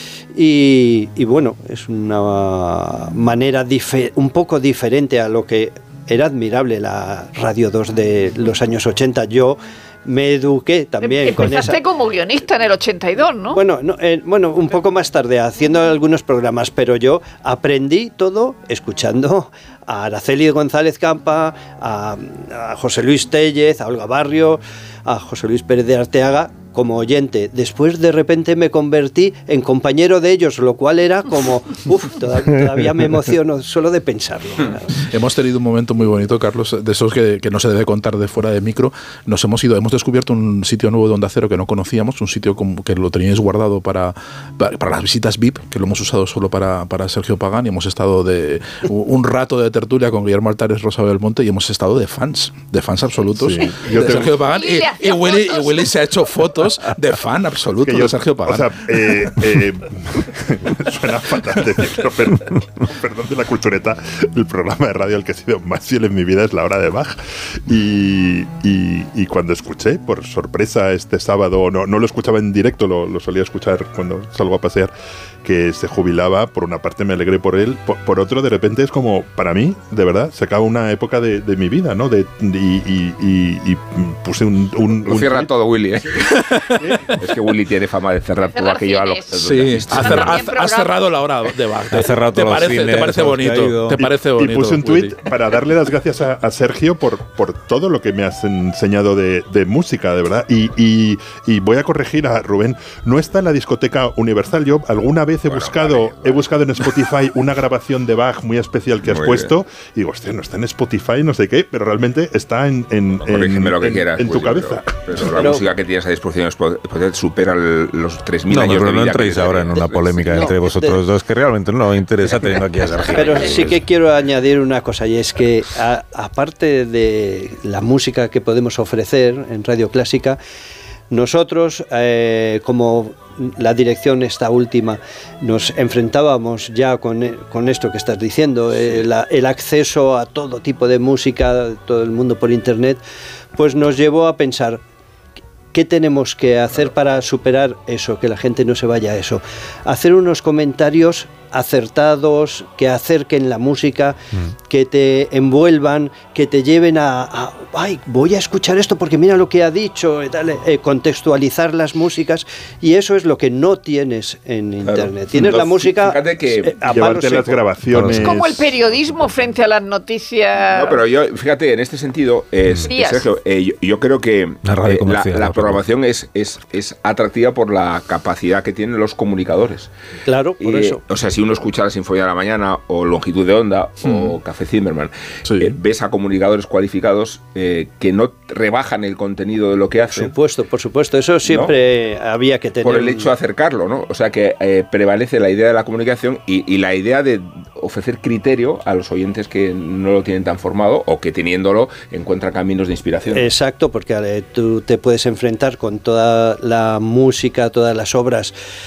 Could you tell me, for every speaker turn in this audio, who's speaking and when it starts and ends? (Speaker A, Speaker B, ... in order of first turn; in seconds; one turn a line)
Speaker A: 0.3-11.8
Speaker B: 11.0-13.6
Speaker A: 13.5-34.9
Speaker C: 35.1-58.7
Speaker D: 53.3-54.5
Speaker B: 54.4-55.9
Speaker D: 57.8-74.9
Speaker D: 75.4-85.5
Speaker E: 85.0-86.3
Speaker E: 87.1-90.5
Speaker B: 88.5-90.9
Speaker C: 89.4-95.2
Speaker F: 91.9-94.0
Speaker D: 94.2-115.3
Speaker E: 105.5-106.8
Speaker E: 109.0-109.5
Speaker E: 113.2-120.5
Speaker A: 115.3-115.6
Speaker F: 118.5-123.8
Speaker A: 120.3-121.0
Speaker A: 123.1-130.4
Speaker A: 131.1-143.0
Speaker A: 143.6-144.8
Speaker A: 145.7-168.3
Speaker E: 164.8-166.7
Speaker D: 166.8-168.7
Speaker B: 168.0-171.0
Speaker E: 170.7-179.9
Speaker B: 172.9-173.3
Speaker F: 174.7-175.8
Speaker A: 180.3-181.0
Speaker E: 180.6-190.3
Speaker C: 184.1-184.3
Speaker C: 185.5-185.8
Speaker A: 190.1-193.3
Speaker E: 191.4-191.7
Speaker E: 192.8-203.5
Speaker A: 203.3-208.5